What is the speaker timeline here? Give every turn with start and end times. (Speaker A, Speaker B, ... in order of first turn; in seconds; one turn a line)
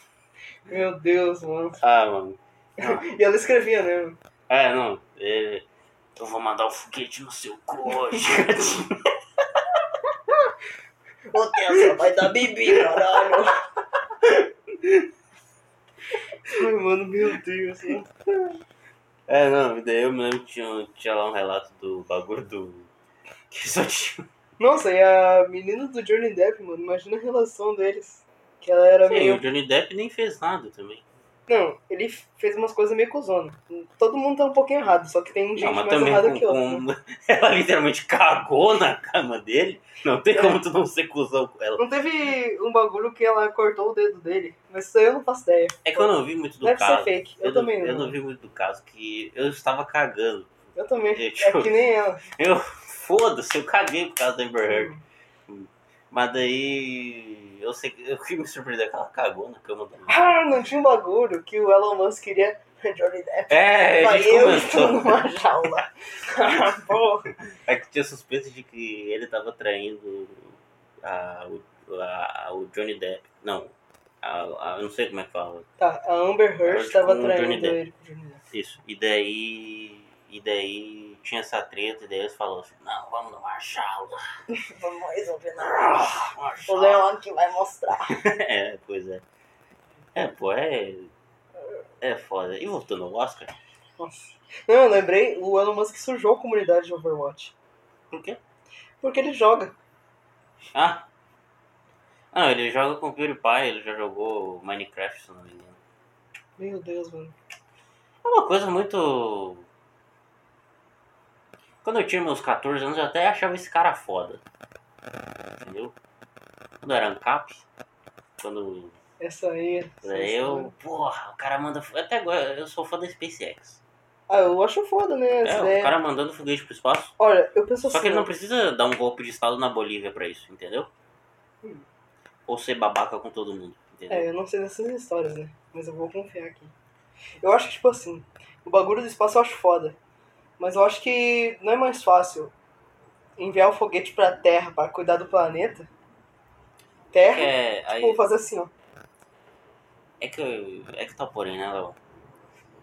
Speaker A: 0.7-1.8
Speaker B: 1.8-3.1
Speaker A: 2.8-4.2
Speaker B: 4.5-5.7
Speaker B: 6.2-9.1
Speaker A: 11.3-13.6
Speaker B: 11.7-13.4
Speaker B: 14.2-15.0
Speaker A: 16.5-18.1
Speaker B: 19.3-22.9
Speaker B: 23.5-24.3
Speaker A: 24.6-29.4
Speaker B: 29.0-31.1
Speaker A: 31.5-36.9
Speaker B: 35.6-41.9
Speaker A: 40.3-40.6
Speaker A: 41.8-48.1
Speaker B: 45.9-50.5
Speaker A: 50.8-52.2
Speaker B: 51.1-54.9
Speaker A: 54.7-55.0
Speaker B: 55.5-60.4
Speaker A: 60.1-67.3
Speaker B: 63.5-65.8
Speaker B: 67.5-75.7
Speaker A: 75.8-78.4
Speaker B: 76.6-77.8
Speaker B: 78.5-84.2
Speaker A: 84.5-88.2
Speaker B: 85.6-87.2
Speaker B: 88.1-89.2
Speaker B: 90.2-91.1
Speaker B: 92.0-93.6
Speaker A: 94.0-97.5
Speaker B: 98.1-98.4
Speaker A: 99.0-99.8
Speaker B: 100.7-101.1
Speaker B: 102.3-105.8
Speaker A: 106.6-107.3
Speaker B: 108.2-109.7
Speaker B: 111.8-114.4
Speaker B: 115.6-116.0
Speaker B: 116.8-117.7
Speaker B: 118.4-119.0
Speaker A: 119.2-120.7
Speaker B: 120.0-123.8
Speaker A: 124.3-126.0
Speaker B: 125.4-127.2
Speaker A: 127.2-128.3
Speaker B: 127.9-130.9
Speaker B: 132.5-134.3
Speaker A: 134.1-136.7
Speaker A: 137.4-140.0
Speaker A: 140.6-142.5
Speaker A: 143.4-145.9
Speaker A: 147.1-148.7
Speaker B: 147.2-148.2
Speaker B: 150.2-152.0